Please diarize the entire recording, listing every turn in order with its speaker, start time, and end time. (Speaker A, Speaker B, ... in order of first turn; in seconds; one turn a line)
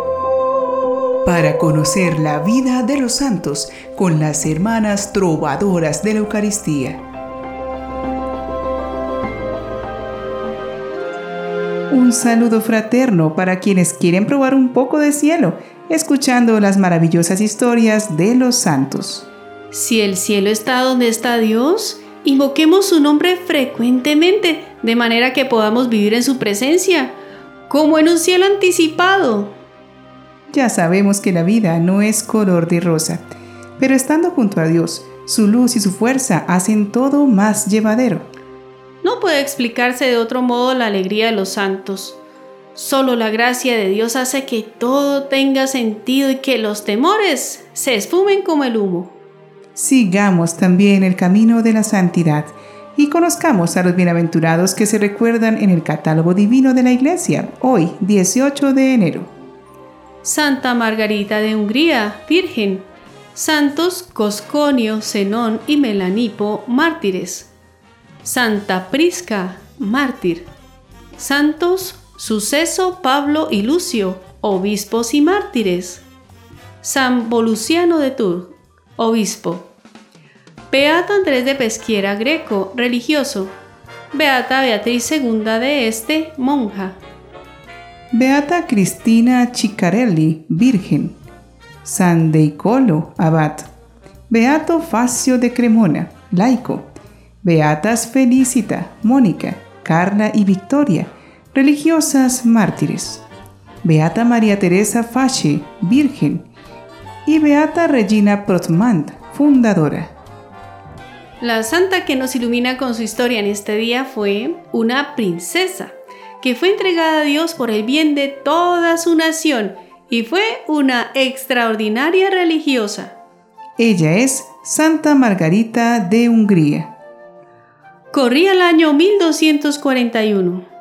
Speaker A: 1.2-7.0
Speaker A: 11.9-19.2
Speaker B: 19.7-27.1
Speaker B: 27.7-29.5
Speaker A: 30.5-33.2
Speaker A: 33.8-38.3
Speaker B: 39.0-42.2
Speaker B: 42.7-49.1
Speaker A: 49.8-59.3
Speaker B: 60.2-67.5
Speaker B: 68.2-70.5
Speaker B: 71.2-76.0
Speaker B: 76.8-79.7
Speaker B: 80.7-83.5
Speaker B: 84.1-87.0
Speaker A: 88.1-91.1
Speaker A: 91.8-93.7
Speaker A: 94.3-96.9
Speaker A: 97.4-103.2
Speaker A: 103.8-106.4
Speaker A: 107.2-110.1
Speaker B: 111.4-123.1
Speaker A: 123.8-126.9
Speaker B: 128.1-130.6